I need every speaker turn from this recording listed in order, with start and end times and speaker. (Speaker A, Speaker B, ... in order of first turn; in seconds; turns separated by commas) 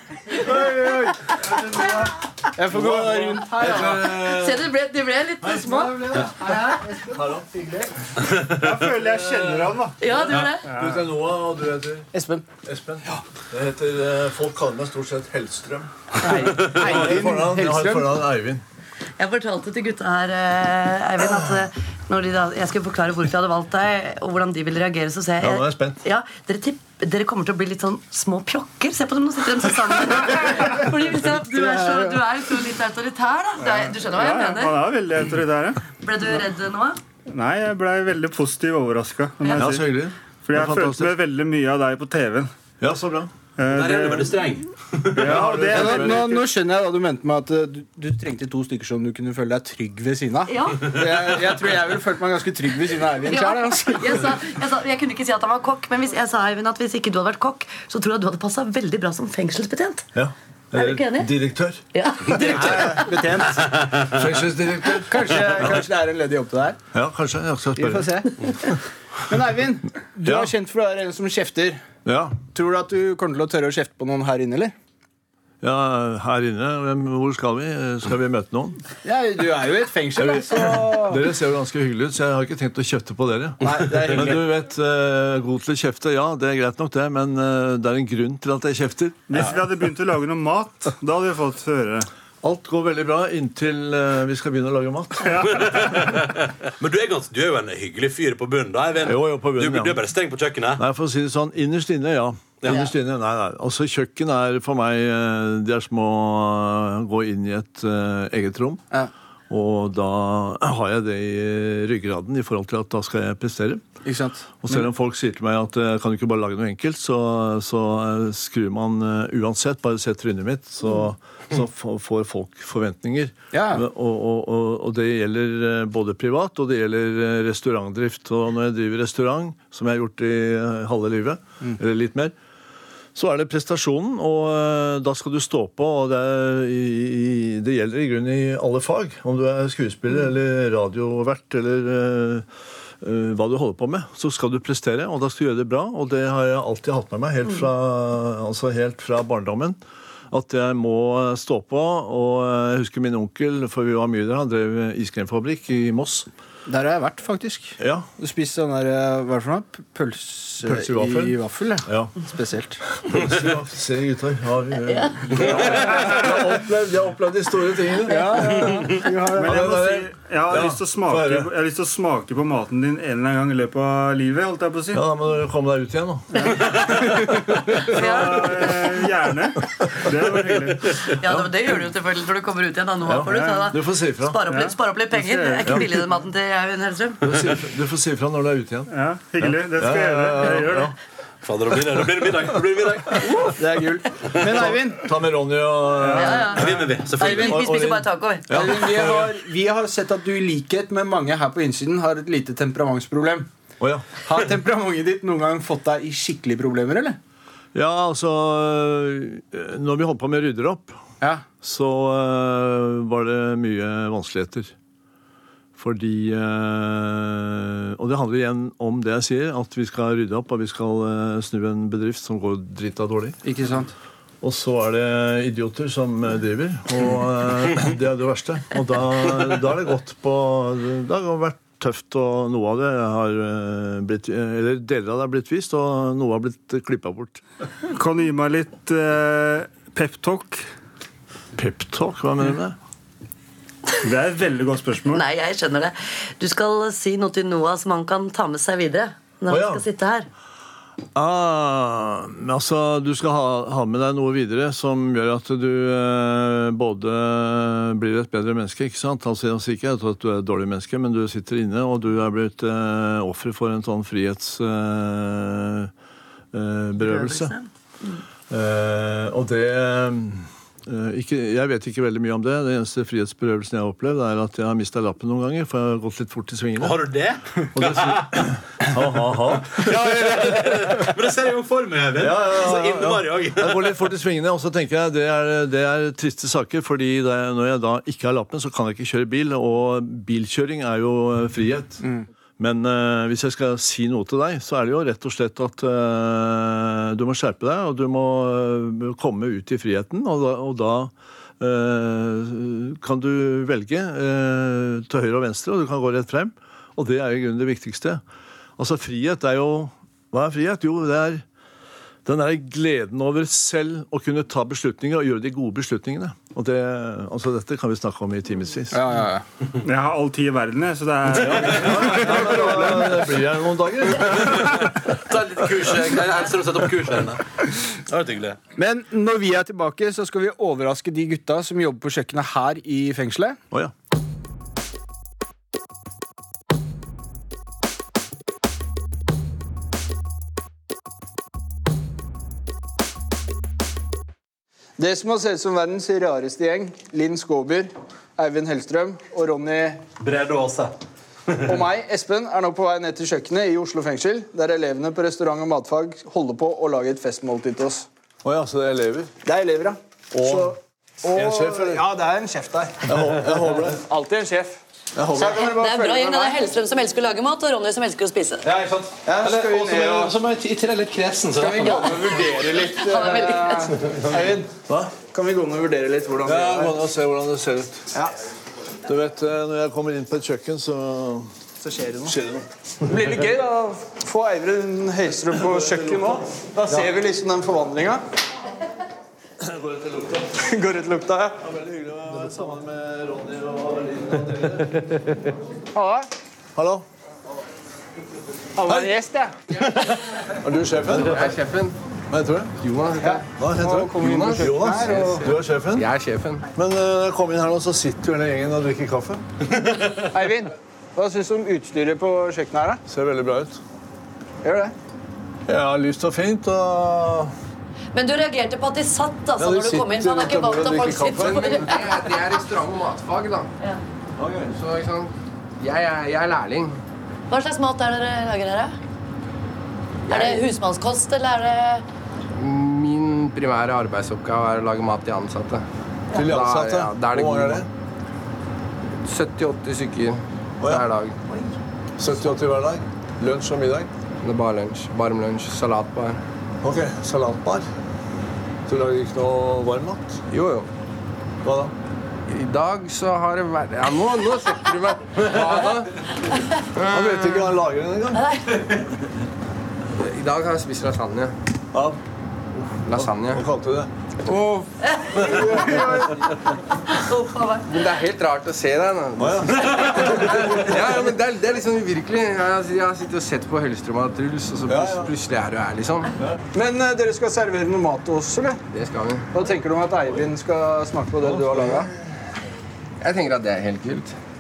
Speaker A: 0.3-4.0, Speaker B: 2.7-4.7, Speaker C: 3.6-6.2, Speaker A: 5.5-7.9, Speaker B: 7.1-7.5, Speaker D: 8.3-10.0, Speaker B: 9.1-9.6, Speaker C: 10.0-10.7, Speaker B: 10.6-12.1, Speaker D: 10.7-11.0, Speaker A: 12.1-12.5, Speaker B: 12.6-18.6, Speaker A: 16.2-18.1, Speaker C: 19.2-34.8, Speaker B: 25.4-26.0, Speaker A: 31.6-32.1, Speaker D: 33.6-35.8, Speaker C: 36.0-37.0, Speaker D: 37.3-42.5, Speaker B: 39.6-41.1, Speaker B: 42.8-43.3, Speaker D: 43.6-44.6, Speaker E: 43.7-45.5, Speaker D: 45.1-46.3, Speaker B: 45.2-46.5, Speaker A: 45.6-54.4, Speaker C: 50.5-51.0, Speaker C: 53.2-60.1, Speaker B: 60.1-61.8, Speaker C: 60.7-61.3, Speaker C: 61.9-63.2, Speaker A: 62.3-63.9, Speaker B: 64.1-65.7, Speaker A: 65.0-66.8, Speaker B: 66.9-68.2, Speaker A: 67.8-68.8, Speaker A: 69.3-71.8, Speaker B: 70.2-70.5, Speaker B: 72.0-72.4, Speaker A: 72.5-74.7, Speaker B: 75.6-78.8, Speaker A: 79.0-81.2, Speaker B: 80.2-89.5, Speaker A: 83.6-84.5, Speaker D: 89.3-92.1, Speaker B: 92.4-95.6, Speaker D: 95.2-96.0, Speaker E: 95.5-100.8, Speaker B: 99.0-100.0, Speaker B: 100.8-108.8, Speaker E: 102.6-102.9, Speaker B: 109.5-113.8, Speaker A: 114.0-114.8, Speaker B: 114.6-132.3, Speaker A: 123.5-123.8, Speaker B: 133.1-142.4, Speaker B: 143.0-149.8, Speaker B: 150.3-156.3, Speaker A: 156.7-162.8, Speaker B: 157.8-158.1, Speaker B: 160.6-162.1, Speaker B: 163.0-168.8, Speaker C: 164.9-165.2, Speaker D: 165.9-166.2, Speaker A: 168.1-169.8, Speaker D: 169.3-175.0, Speaker B: 169.4-171.5, Speaker B: 174.9-176.5, Speaker C: 176.4-177.1, Speaker D: 176.5-181.0, Speaker C: 177.8-178.7, Speaker C: 181.0-187.2, Speaker B: 183.1-184.4, Speaker D: 183.2-183.7, Speaker D: 184.5-185.9, Speaker B: 187.2-190.9, Speaker D: 188.9-190.9, Speaker E: 191.4-193.6, Speaker B: 192.0-192.6, Speaker A: 193.4-195.1, Speaker B: 194.4-199.4, Speaker D: 196.0-196.4, Speaker C: 196.1-198.5, Speaker E: 196.5-197.6, Speaker A: 198.5-203.5, Speaker B: 203.8-204.1, Speaker A: 204.2-207.2, Speaker B: 207.7-211.0, Speaker B: 211.6-214.7, Speaker B: 215.8-223.4, Speaker A: 223.4-223.9, Speaker B: 224.4-237.4, Speaker D: 237.9-240.6, Speaker B: 241.6-242.8, Speaker D: 244.0-245.2, Speaker C: 245.1-250.3, Speaker B: 249.5-249.8, Speaker B: 251.1-265.9, Speaker B: 266.5-267.5, Speaker C: 267.0-267.7, Speaker B: 268.5-277.0, Speaker E: 276.8-278.4, Speaker B: 277.7-281.1, Speaker E: 279.7-284.0, Speaker B: 282.2-292.0, Speaker B: 292.6-308.2, Speaker B: 308.8-311.4, Speaker B: 312.2-319.1, Speaker A: 318.9-319.4, Speaker D: 319.8-323.1, Speaker B: 321.6-324.9, Speaker E: 324.3-327.4, Speaker E: 328.1-328.6, Speaker A: 328.8-333.6, Speaker A: 345.0-350.0, Speaker E: 350.2-350.9, Speaker E: 351.5-351.8, Speaker A: 351.6-358.1, Speaker B: 358.4-359.3, Speaker A: 359.4-364.8, Speaker B: 360.3-360.8, Speaker B: 361.3-362.0, Speaker B: 363.1-364.0, Speaker B: 365.1-365.7, Speaker A: 365.3-366.7, Speaker C: 365.6-368.6, Speaker E: 368.6-372.4, Speaker A: 369.2-370.4, Speaker A: 371.5-374.7, Speaker C: 371.8-373.9, Speaker E: 374.0-374.4, Speaker B: 374.9-375.1, Speaker A: 375.3-376.9, Speaker B: 376.4-378.1, Speaker B: 379.1-381.5, Speaker A: 381.8-382.4, Speaker B: 382.2-382.6, Speaker A: 383.1-388.2, Speaker B: 385.5-386.4, Speaker B: 389.6-390.6, Speaker A: 390.6-391.6, Speaker B: 391.6-395.1, Speaker A: 395.9-396.3, Speaker B: 396.8-397.1, Speaker A: 398.8-399.6, Speaker B: 398.9-399.1, Speaker E: 399.9-400.2, Speaker B: 400.6-401.6, Speaker F: 401.2-401.9, Speaker B: 402.3-402.7, Speaker F: 402.8-403.5, Speaker A: 403.2-405.4, Speaker B: 403.6-406.1, Speaker F: 404.2-406.6, Speaker B: 406.8-409.4, Speaker E: 409.9-410.2, Speaker A: 410.3-413.0, Speaker B: 413.1-413.8, Speaker A: 414.6-414.9, Speaker B: 415.7-417.5, Speaker C: 418.1-422.1, Speaker B: 419.6-421.8, Speaker F: 421.4-423.7, Speaker F: 424.6-427.0, Speaker C: 427.5-428.9, Speaker F: 430.3-430.7, Speaker C: 430.3-432.1, Speaker F: 432.6-437.9, Speaker B: 436.3-437.9, Speaker F: 439.2-441.4, Speaker B: 442.2-444.1, Speaker F: 444.4-446.4, Speaker B: 446.8-447.9, Speaker B: 448.9-450.4, Speaker F: 450.5-450.9, Speaker B: 451.6-451.9, Speaker F: 452.5-456.1, Speaker C: 456.5-456.8, Speaker F: 456.9-457.6, Speaker B: 457.0-458.5, Speaker C: 458.3-459.0, Speaker F: 460.1-461.5, Speaker B: 461.9-462.2, Speaker B: 462.8-464.1, Speaker F: 463.1-463.6, Speaker F: 464.4-466.3, Speaker C: 465.1-466.0, Speaker A: 465.4-466.4, Speaker B: 465.6-466.0, Speaker C: 467.1-467.9, Speaker F: 467.9-476.3, Speaker B: 469.4-470.8, Speaker B: 474.9-475.3, Speaker A: 476.7-478.8, Speaker F: 478.9-479.5, Speaker A: 479.5-482.1, Speaker B: 481.4-482.1, Speaker F: 483.2-484.3